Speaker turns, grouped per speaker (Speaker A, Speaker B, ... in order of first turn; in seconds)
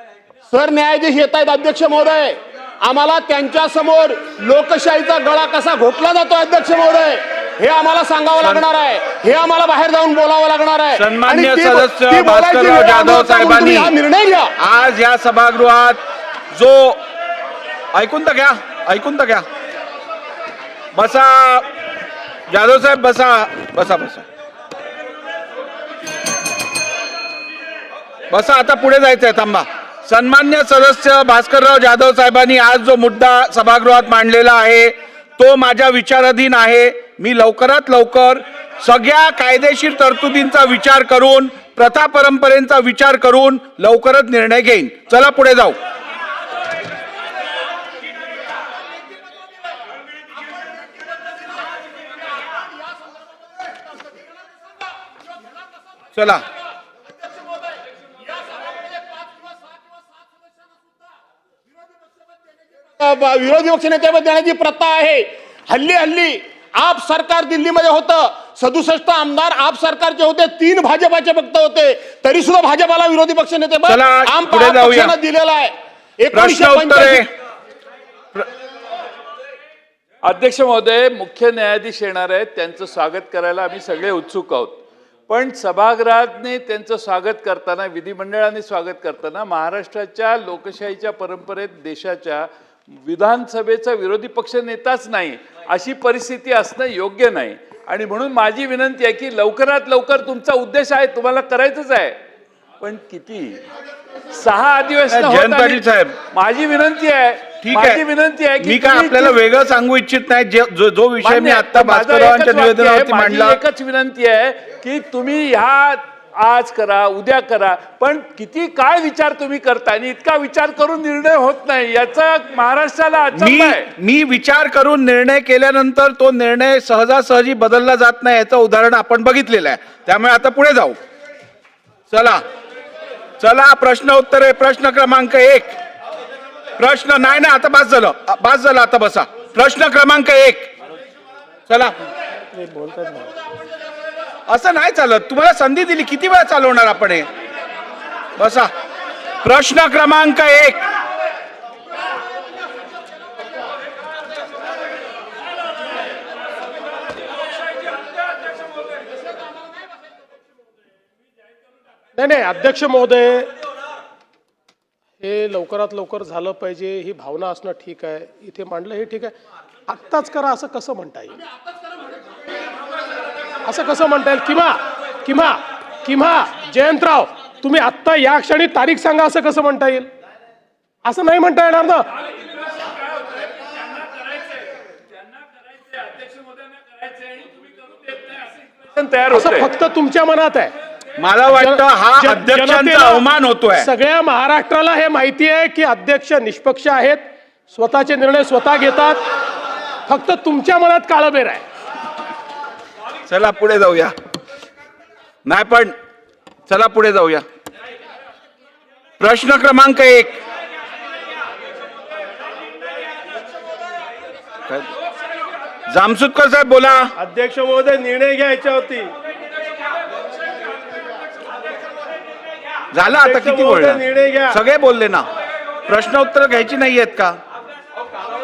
Speaker A: 0.5-14.5, 63.0-77.2
Speaker B: 10.9-13.9, 14.6-16.0, 16.5-17.0, 17.9-19.5, 20.9-21.7, 22.5-24.2, 28.3-45.8, 56.1-56.5, 73.9-75.1, 76.3-77.3, 105.1-106.2, 107.6-108.0, 108.6-113.6, 123.3-131.0, 132.1-132.4, 133.4-135.8, 136.8-140.7, 141.7-141.9, 144.5-147.3, 148.4-148.7, 149.4-150.8, 191.2-193.9, 203.3-204.2, 205.4-205.9, 206.7-207.4, 209.2-210.4, 215.9-217.1, 222.9-225.3, 225.9-227.4
Speaker C: 80.2-102.2, 102.8-103.6, 104.3-109.4, 111.2-123.9, 182.3-189.7
Speaker D: 142.5-143.4, 162.2-163.5, 165.2-169.4, 169.9-171.4, 173.7-180.1, 181.0-182.1, 189.3-190.7, 191.5-199.2, 200.1-201.7
Speaker E: 217.2-219.1, 223.1-224.6